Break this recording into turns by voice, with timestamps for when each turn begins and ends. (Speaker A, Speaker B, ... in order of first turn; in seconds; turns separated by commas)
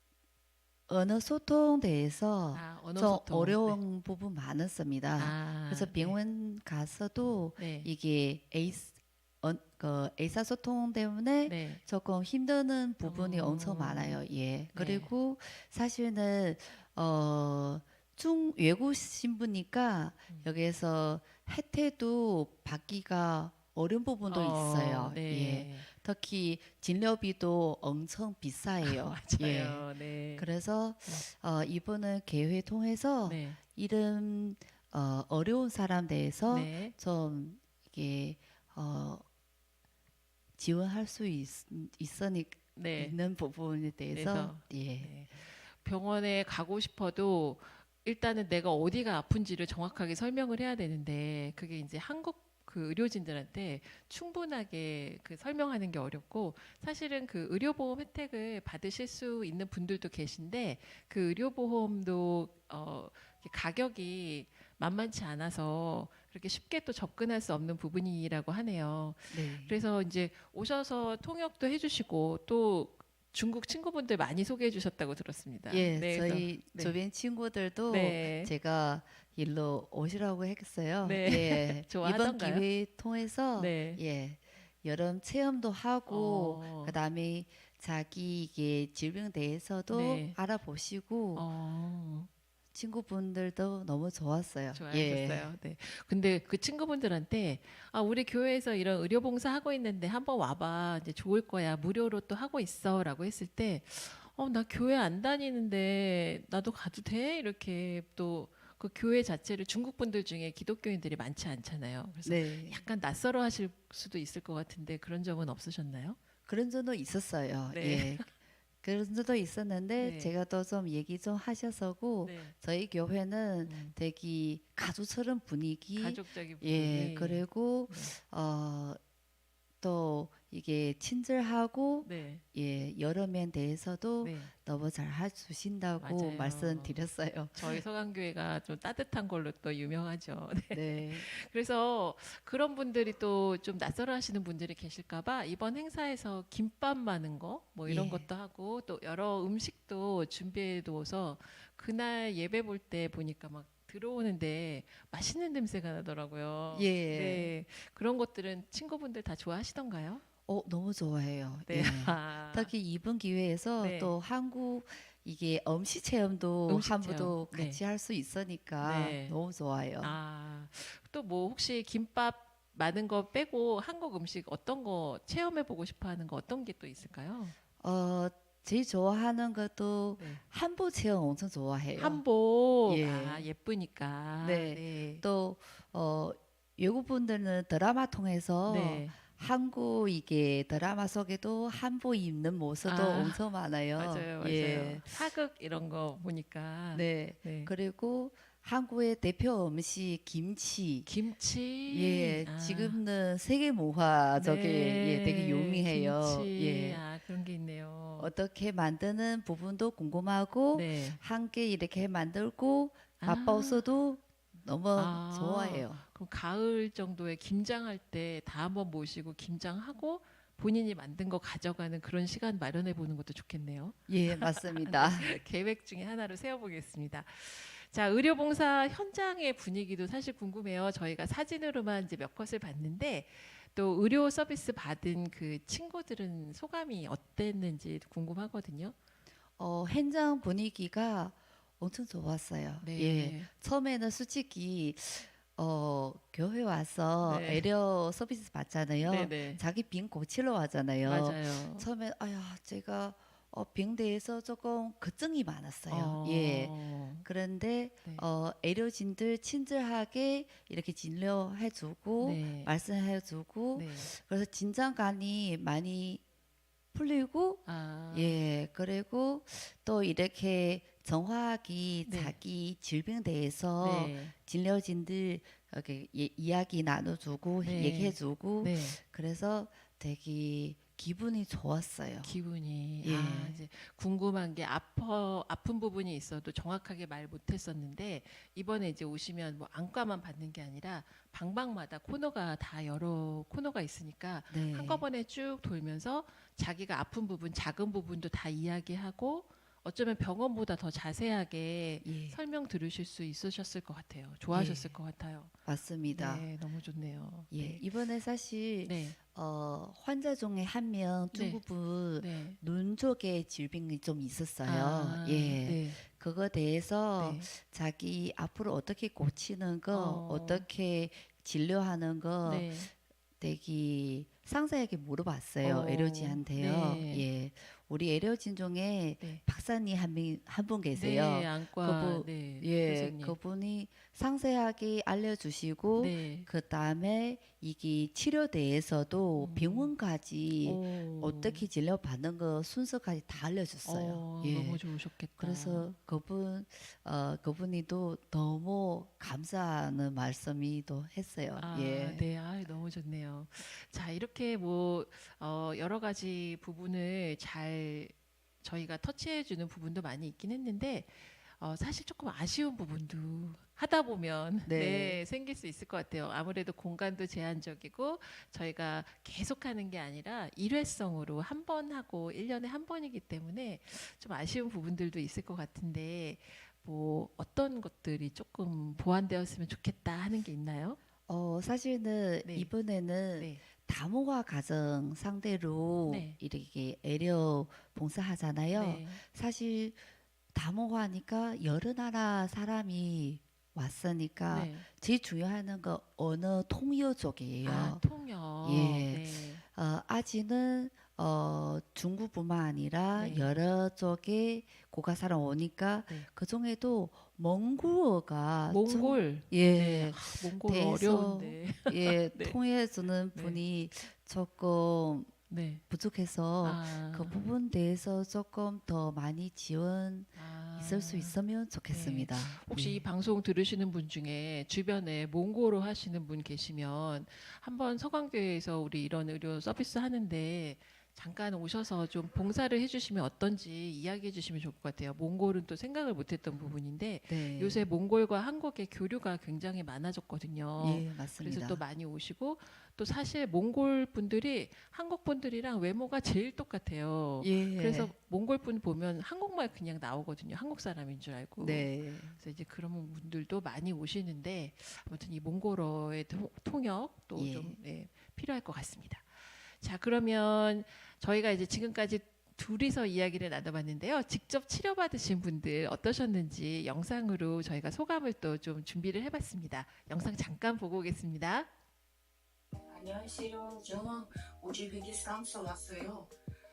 Speaker A: 0.9-29.9, Speaker B: 2.5-3.8, Speaker B: 5.2-6.2, Speaker B: 7.6-7.9, Speaker B: 11.5-11.8, Speaker B: 13.0-14.2, Speaker B: 14.7-15.1, Speaker B: 24.3-25.9, Speaker B: 28.8-30.5, Speaker A: 30.4-39.2, Speaker B: 33.2-33.6, Speaker B: 36.5-36.9, Speaker A: 40.6-45.1, Speaker B: 42.8-43.2, Speaker B: 44.1-76.9, Speaker A: 69.3-69.7, Speaker A: 75.7-91.5, Speaker B: 77.9-78.5, Speaker B: 81.0-82.7, Speaker B: 83.6-84.0, Speaker B: 86.1-86.9, Speaker B: 89.9-90.4, Speaker B: 91.4-92.3, Speaker A: 92.7-95.5, Speaker B: 94.7-116.2, Speaker A: 112.3-112.8, Speaker A: 116.5-118.3, Speaker B: 117.7-118.3, Speaker A: 118.8-129.0, Speaker B: 120.0-120.3, Speaker B: 122.2-122.5, Speaker B: 123.7-123.9, Speaker B: 126.0-128.2, Speaker A: 129.8-137.8, Speaker B: 132.0-132.4, Speaker B: 134.2-134.5, Speaker B: 136.0-137.0, Speaker B: 137.6-160.2, Speaker A: 140.7-141.3, Speaker A: 147.9-148.3, Speaker A: 156.7-157.5, Speaker A: 160.5-170.2, Speaker B: 161.7-162.7, Speaker B: 163.8-164.2, Speaker B: 166.7-167.8, Speaker B: 168.8-169.4, Speaker B: 170.0-177.6, Speaker A: 177.8-182.2, Speaker B: 182.0-185.2, Speaker A: 182.8-183.4, Speaker A: 184.4-195.1, Speaker B: 188.7-189.2, Speaker B: 192.8-193.4, Speaker B: 193.9-197.7, Speaker A: 196.9-201.1, Speaker B: 201.1-203.0, Speaker A: 201.9-207.0, Speaker B: 204.4-208.3, Speaker A: 208.2-216.0, Speaker B: 210.7-211.2, Speaker B: 213.2-213.8, Speaker B: 214.9-238.9, Speaker A: 224.1-225.4, Speaker A: 239.6-266.2, Speaker B: 242.8-243.5, Speaker B: 247.2-247.7, Speaker B: 249.0-249.6, Speaker B: 251.0-251.9, Speaker B: 255.9-257.2, Speaker B: 262.2-262.7, Speaker B: 263.8-264.1, Speaker A: 266.9-282.3, Speaker B: 267.7-268.4, Speaker B: 272.1-272.4, Speaker B: 273.8-274.3, Speaker B: 277.6-279.0, Speaker B: 282.2-305.5, Speaker A: 283.0-283.6, Speaker A: 294.5-295.0, Speaker A: 302.0-302.4, Speaker A: 304.5-304.9, Speaker A: 305.6-306.4, Speaker B: 306.1-307.8, Speaker A: 307.5-322.8, Speaker B: 308.8-309.2, Speaker B: 311.3-311.6, Speaker B: 312.2-312.6, Speaker B: 314.6-316.0, Speaker B: 317.2-317.5, Speaker B: 319.9-320.7, Speaker B: 322.4-322.9, Speaker A: 323.4-344.8, Speaker B: 325.6-327.3, Speaker B: 330.9-333.4, Speaker B: 336.0-336.5, Speaker B: 339.4-339.9, Speaker B: 340.6-341.6, Speaker B: 343.8-345.9, Speaker A: 345.4-352.2, Speaker B: 351.6-381.0, Speaker A: 364.7-365.2, Speaker A: 381.3-390.0, Speaker B: 382.4-382.7, Speaker B: 386.1-386.4, Speaker B: 388.7-389.2, Speaker A: 390.5-398.0, Speaker B: 394.5-394.9, Speaker B: 397.6-399.6, Speaker A: 398.6-415.3, Speaker B: 403.1-403.6, Speaker B: 408.7-412.6, Speaker B: 413.3-413.6, Speaker B: 415.5-415.8, Speaker A: 415.9-423.0, Speaker B: 416.6-417.5, Speaker B: 420.4-421.4, Speaker B: 421.9-471.7, Speaker A: 437.3-437.8, Speaker A: 440.8-441.8, Speaker A: 447.4-448.1, Speaker A: 451.6-452.4, Speaker A: 457.4-457.8, Speaker C: 472.9-476.3